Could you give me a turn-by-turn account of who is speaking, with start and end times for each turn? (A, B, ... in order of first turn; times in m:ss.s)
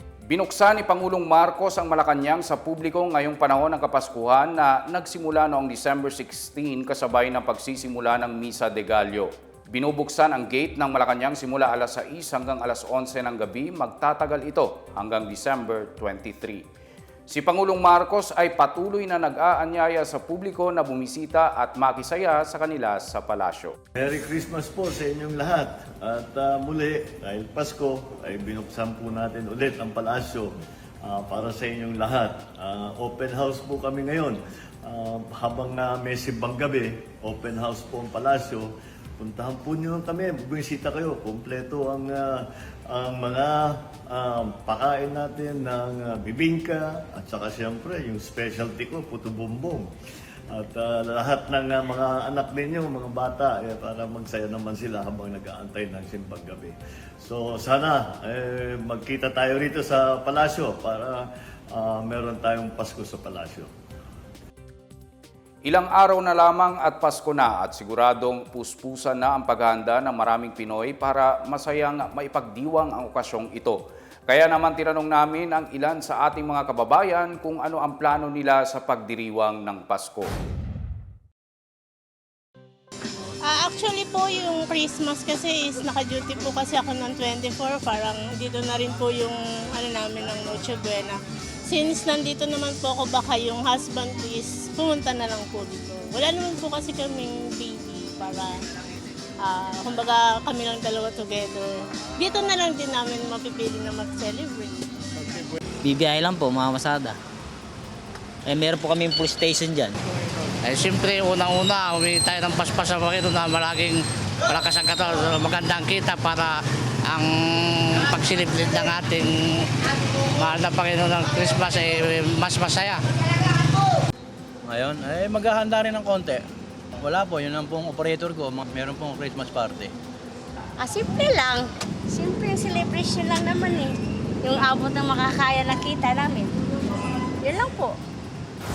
0:00.3-0:16.6 A
0:17.3-0:23.7 A
0:24.0-0:49.9 B
0:50.5-1:03.7 B
1:05.6-1:20.3 A
1:23.5-1:38.5 C
1:39.4-1:44.8 C
1:45.8-1:47.1 D
1:48.5-1:49.9 D
1:50.6-2:03.0 E
2:04.7-2:06.4 F
2:07.0-2:09.9 F
2:10.8-2:16.5 G
2:17.4-2:18.0 G